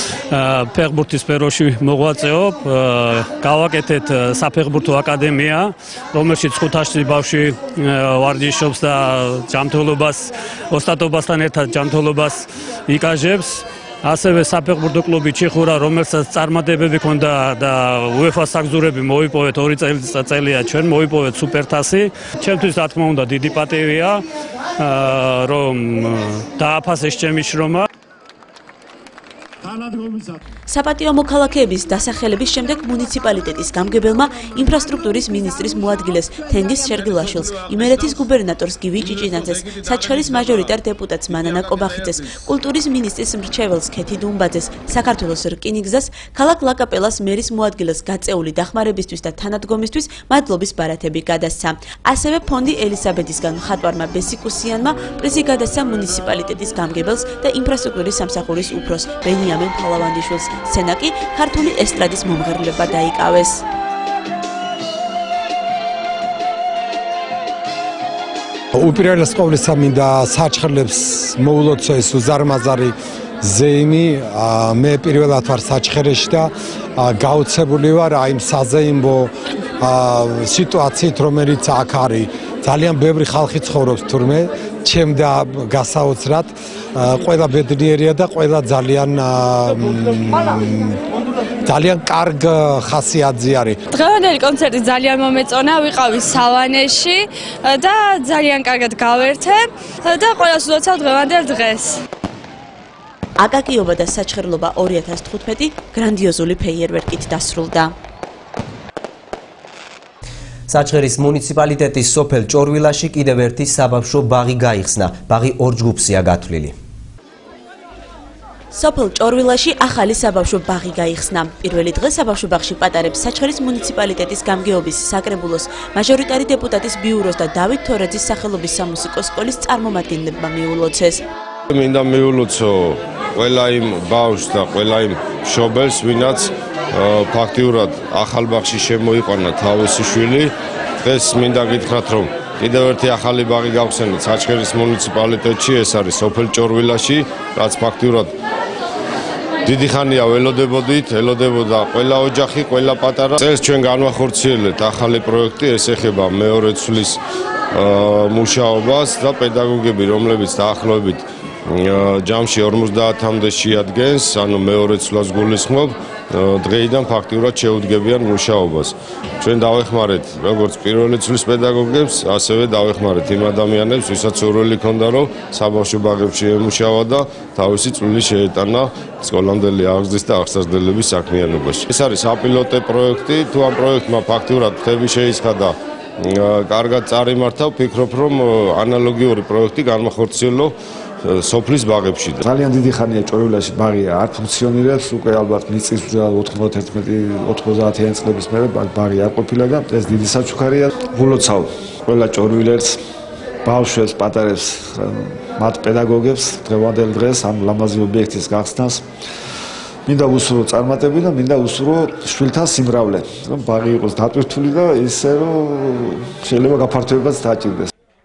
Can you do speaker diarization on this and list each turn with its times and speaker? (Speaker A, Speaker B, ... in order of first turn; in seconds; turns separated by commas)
Speaker A: 0.3-24.2, Speaker A: 24.8-27.9, Speaker B: 30.7-63.6, Speaker C: 68.7-91.0, Speaker C: 91.6-93.8, Speaker D: 93.9-102.0, Speaker B: 103.4-107.9, Speaker E: 110.7-116.7, Speaker B: 118.7-131.2, Speaker F: 131.7-148.3, Speaker F: 149.6-157.2, Speaker F: 157.7-192.4, Speaker G: 192.4-203.0, Speaker G: 203.6-209.0, Speaker G: 210.1-217.9